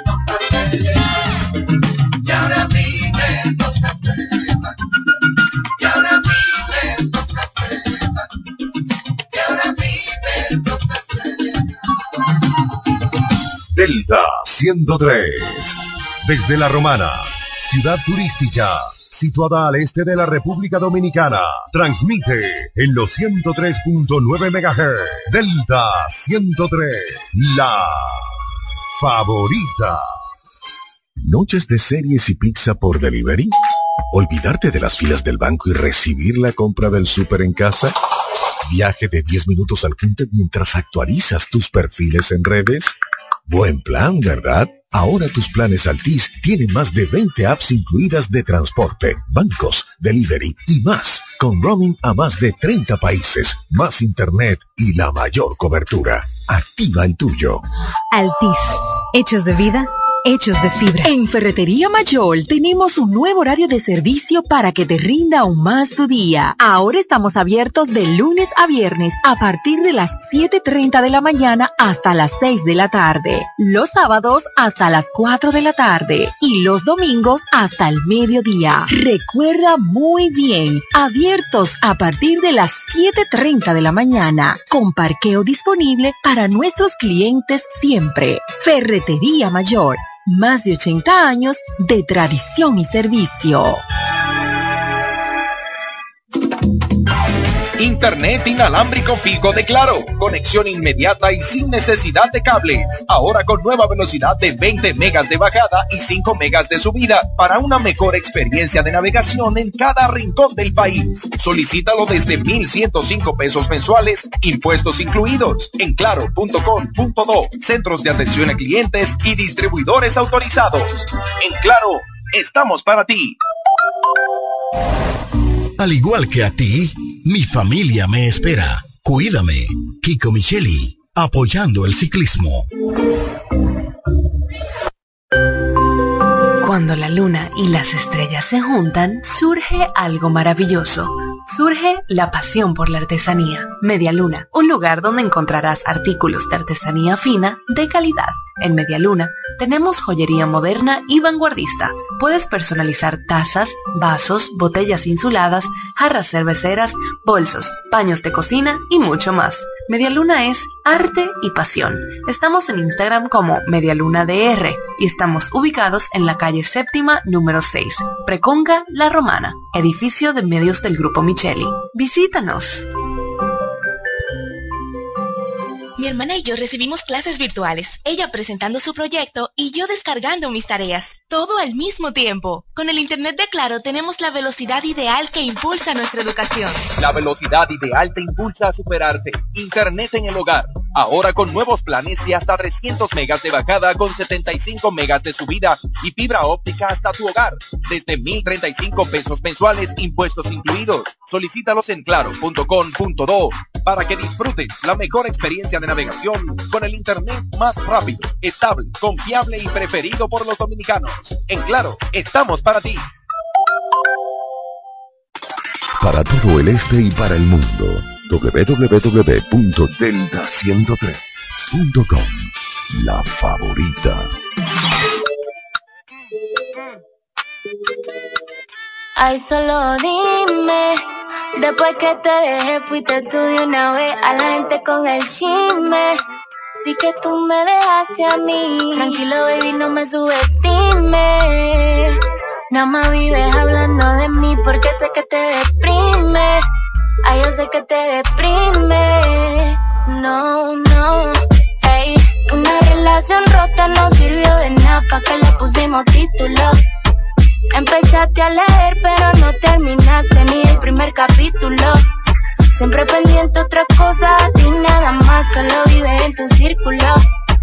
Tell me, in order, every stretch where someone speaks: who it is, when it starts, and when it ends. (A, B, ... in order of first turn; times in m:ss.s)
0:13.7-0:28.2 A
0:28.9-0:30.0 A
0:31.2-0:33.5 B
0:34.1-0:37.9 B
0:38.6-0:42.9 B
0:43.4-0:57.6 B
0:58.1-1:33.8 C
1:37.8-2:03.4 D
2:05.8-2:06.7 E
2:07.3-2:10.5 E
2:11.2-2:12.6 E
2:16.6-2:52.8 F
2:56.0-3:06.8 G
3:07.0-3:33.0 D
3:36.0-3:44.3 A
3:49.2-3:51.0 H
3:51.6-3:56.2 H
3:56.8-4:02.1 H
4:02.7-4:06.6 H
4:07.2-4:16.8 H
4:17.7-4:22.0 H
4:22.7-4:27.2 H